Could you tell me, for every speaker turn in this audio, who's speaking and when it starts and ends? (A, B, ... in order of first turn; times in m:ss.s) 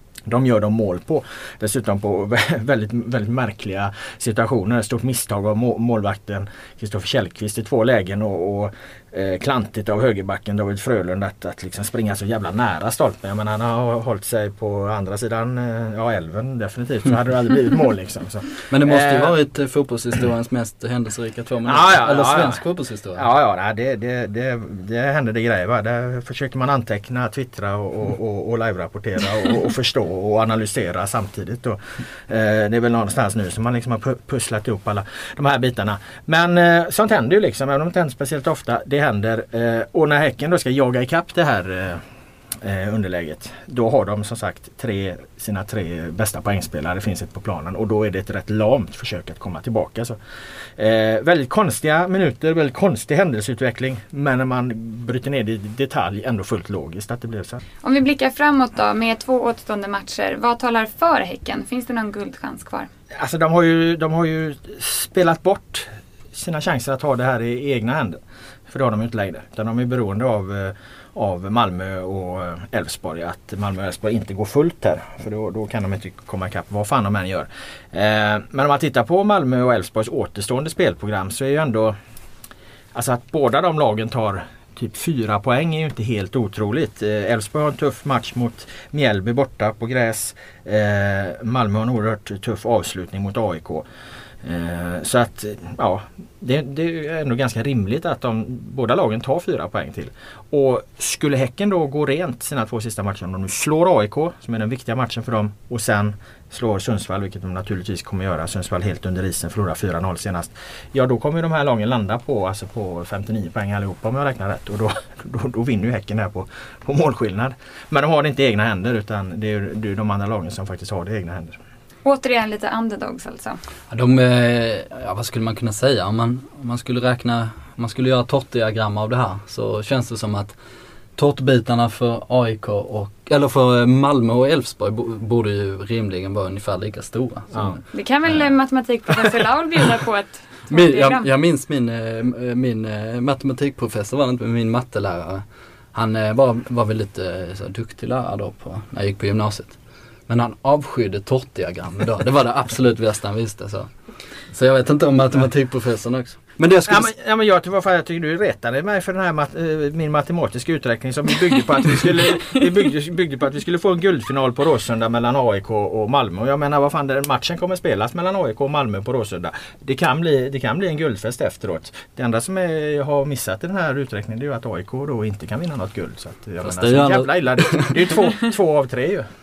0:00.3-0:19.4 A
0:18.7-0:23.3 B
0:21.7-0:22.6 A
0:23.2-0:42.0 A
0:42.6-0:50.2 A
0:50.8-0:57.6 A
0:57.8-1:02.9 C
1:03.2-1:22.0 A
1:22.9-1:33.8 A
1:34.4-2:01.6 A
2:02.0-2:03.6 C
2:03.9-2:10.6 B
2:11.2-2:17.8 B
2:17.5-2:17.8 A
2:17.9-2:21.3 C
2:20.7-2:29.8 B
2:30.3-2:33.9 B
2:34.5-2:37.1 B
2:36.9-2:59.3 A
2:56.6-2:58.0 B